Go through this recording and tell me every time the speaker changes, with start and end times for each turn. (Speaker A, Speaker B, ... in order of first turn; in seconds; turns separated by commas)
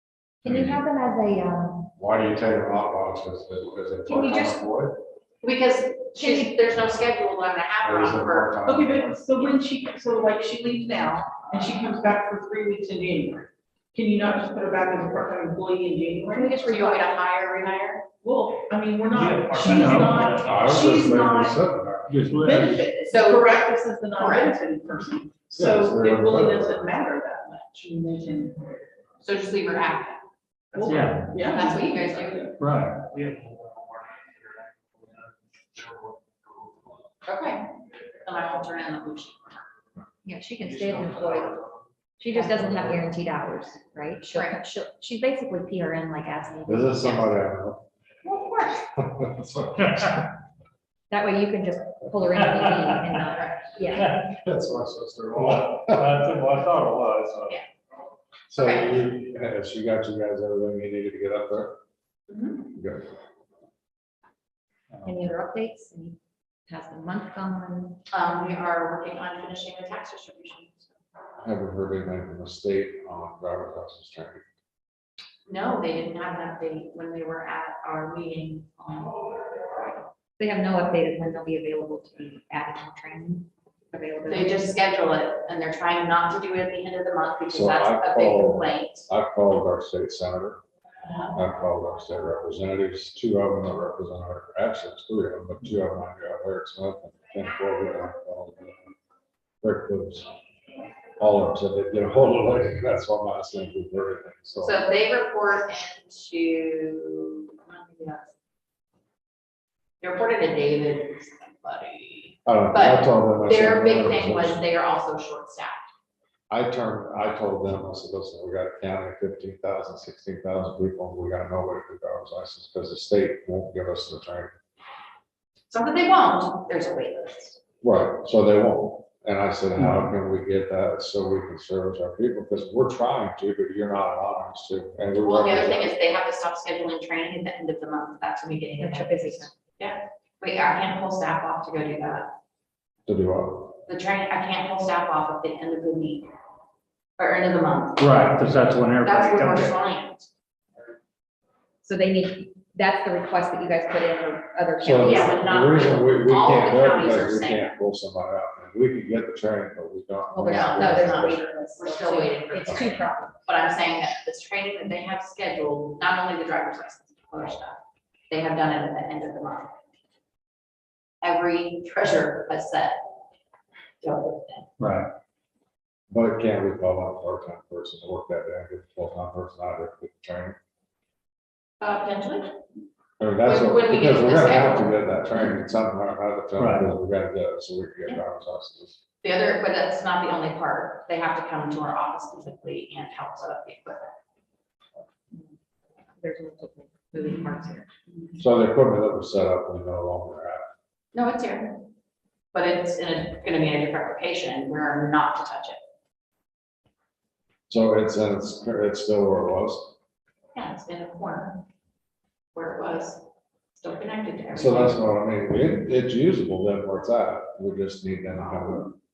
Speaker A: 0.4-1.9, Speaker B: 0.5-0.8, Speaker B: 2.0-4.9, Speaker A: 4.1-4.6, Speaker C: 5.4-8.6, Speaker A: 6.2-6.5, Speaker B: 7.8-9.2, Speaker D: 8.7-16.9, Speaker A: 16.3-17.0, Speaker C: 16.6-18.1, Speaker D: 18.2-21.6, Speaker E: 19.1-20.8, Speaker B: 20.3-22.2, Speaker E: 22.1-22.9, Speaker D: 22.4-28.6, Speaker C: 23.1-23.6, Speaker C: 24.2-24.6, Speaker B: 25.5-26.9, Speaker C: 29.2-30.2, Speaker D: 30.7-32.5, Speaker E: 30.8-31.5, Speaker C: 31.4-32.6, Speaker E: 32.6-33.4, Speaker C: 37.2-37.6, Speaker C: 38.2-39.7, Speaker A: 40.2-41.6, Speaker A: 42.2-47.4, Speaker C: 44.3-44.6, Speaker B: 46.7-47.9, Speaker C: 48.2-48.9, Speaker B: 49.0-50.4, Speaker A: 51.1-54.1, Speaker C: 53.3-53.8, Speaker E: 53.9-54.3, Speaker B: 54.2-56.2, Speaker E: 55.4-57.6, Speaker B: 58.5-61.8, Speaker C: 58.5-59.0, Speaker C: 62.3-62.7, Speaker B: 62.8-63.1, Speaker A: 65.0-68.0, Speaker C: 68.1-70.9, Speaker B: 71.4-74.4, Speaker C: 75.5-80.1, Speaker A: 80.4-84.8, Speaker C: 84.3-89.1, Speaker B: 87.5-90.6, Speaker C: 91.0-91.4, Speaker B: 91.3-98.8, Speaker B: 99.6-100.3, Speaker B: 101.2-104.8, Speaker C: 104.6-108.3, Speaker C: 110.0-115.9, Speaker B: 112.5-114.6, Speaker B: 116.5-124.5, Speaker C: 125.7-127.6, Speaker B: 127.8-135.9, Speaker C: 135.2-142.3, Speaker A: 138.8-139.6, Speaker B: 143.1-143.8, Speaker C: 143.9-146.3, Speaker C: 147.2-148.2, Speaker E: 148.0-149.7, Speaker C: 149.0-150.3, Speaker A: 151.8-155.8, Speaker B: 154.8-161.4, Speaker C: 155.0-157.8, Speaker A: 160.3-163.4, Speaker C: 160.5-169.7, Speaker C: 171.2-173.0, Speaker C: 174.0-174.7, Speaker E: 174.8-175.1, Speaker B: 176.1-180.6, Speaker C: 181.8-182.5, Speaker B: 183.2-189.0, Speaker C: 183.4-184.9, Speaker E: 186.6-186.9, Speaker C: 189.2-194.1, Speaker A: 196.2-197.9, Speaker C: 197.2-197.5, Speaker C: 198.1-198.4, Speaker B: 198.4-200.7, Speaker C: 201.1-201.8, Speaker C: 202.5-205.8, Speaker B: 207.7-209.9, Speaker C: 210.6-211.6, Speaker C: 212.5-213.2, Speaker C: 213.8-215.0, Speaker B: 214.5-218.9